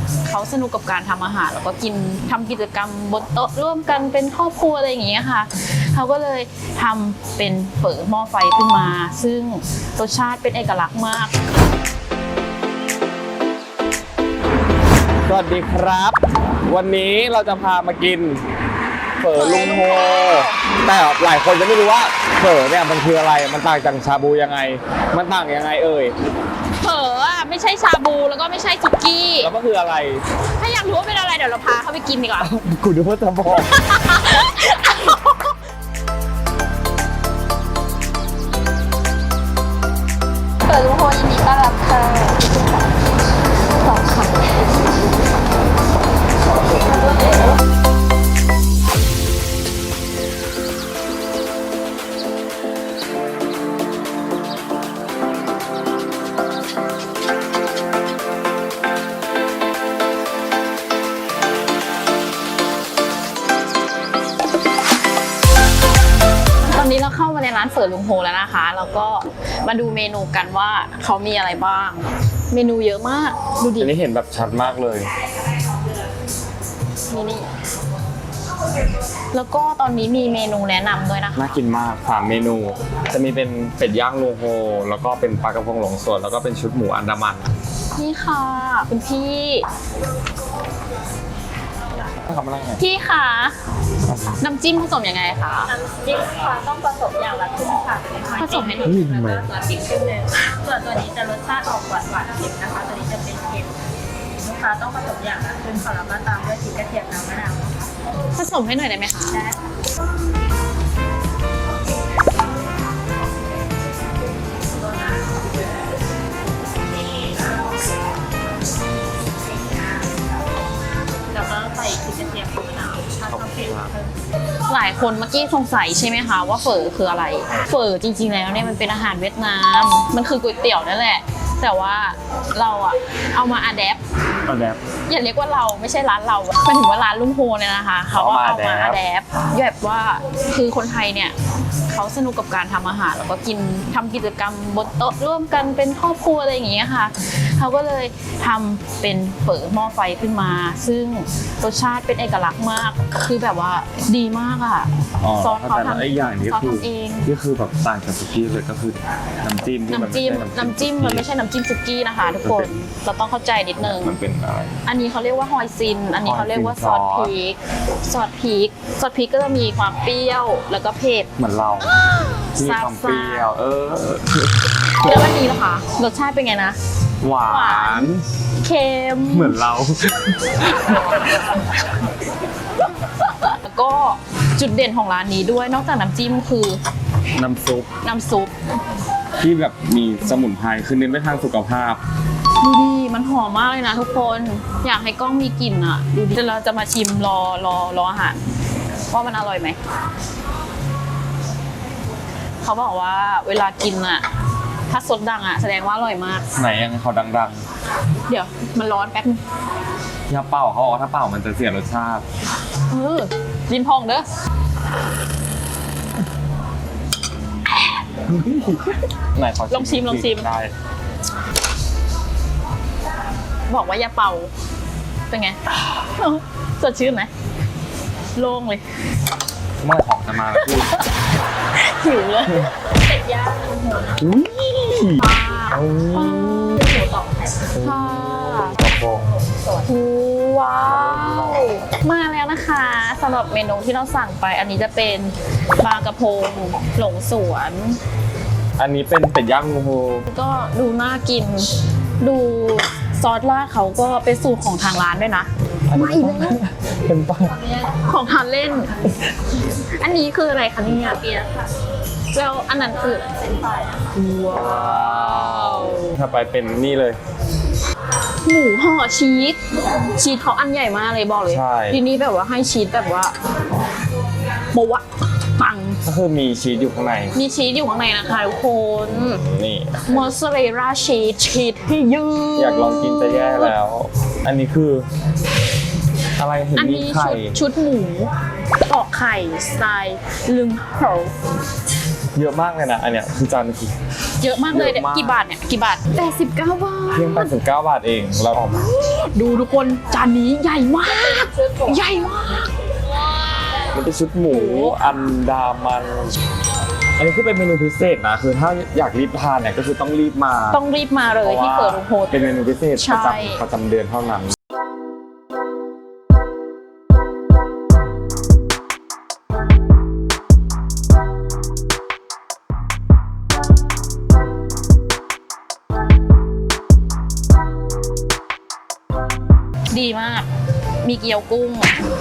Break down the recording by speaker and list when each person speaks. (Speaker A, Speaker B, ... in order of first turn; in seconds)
Speaker A: 0.2-11.3, 19.3-20.6, 26.8-29.5, 30.5-32.5, 33.7-35.5, 40.7-42.9, 43.8-44.6, 46.7-47.6, 66.6-73.9, 77.1-77.5, 79.3-81.6, 88.0-89.7, 92.8-93.5, 94.4-95.7, 98.4-99.1, 108.3-109.5, 124.7-134.0, 135.1-141.3, 141.9-157.3, 159.9-164.2, 164.8-171.3, 172.5-173.5, 174.9-176.8, 177.4-179.6, 183.0-186.8, 188.0-188.5, 192.6-198.4, 199.1-199.8, 202.6-204.2, 204.9-206.5, 208.3-209.4, 212.9-214.2, 219.7-220.5, 223.7-224.5, 225.3-227.3, 228.3-228.8, 230.4-231.1, 231.7-232.7, 235.2-236.8, 237.7-238.8, 239.8-248.0, 250.3-256.6, 257.6-261.6, 262.3-263.3, 264.0-266.2, 268.4-273.3, 274.7-276.0, 277.3-279.4, 280.1-283.7, 286.8-288.3, 288.9-291.3, 294.4-297.5, 298.8-302.7, 304.5-305.3, 310.7-312.4, 312.9-313.6, 329.9-330.5, 331.0-331.9
Speaker B: 15.2-18.4, 19.2-26.1, 29.4-30.2, 32.4-33.8, 73.8-75.1, 81.3-87.5, 92.0-92.8, 94.0-94.4, 98.8-99.5, 123.3-123.9, 134.4-134.8, 138.1-139.0, 155.2-161.2, 162.4-162.7, 163.8-164.8, 166.2-167.3, 171.4-172.0, 172.5-175.1, 177.2-178.2, 179.3-181.4, 187.3-187.9, 189.4-192.0, 206.6-207.6, 210.3-212.2, 218.3-220.7, 229.8-231.0, 234.1-236.9, 237.7-239.3, 240.9-241.8, 248.8-250.3, 255.9-257.6, 264.5-267.2, 271.5-272.0, 276.0-277.4, 279.0-280.3, 282.6-285.1, 286.4-287.6, 292.3-293.9, 294.7-295.4, 297.1-298.9, 303.9-306.4, 307.2-310.8, 311.4-314.6
Speaker C: 95.7-103.8, 104.4-107.8, 121.3-124.1, 232.9-234.2, 236.8-237.7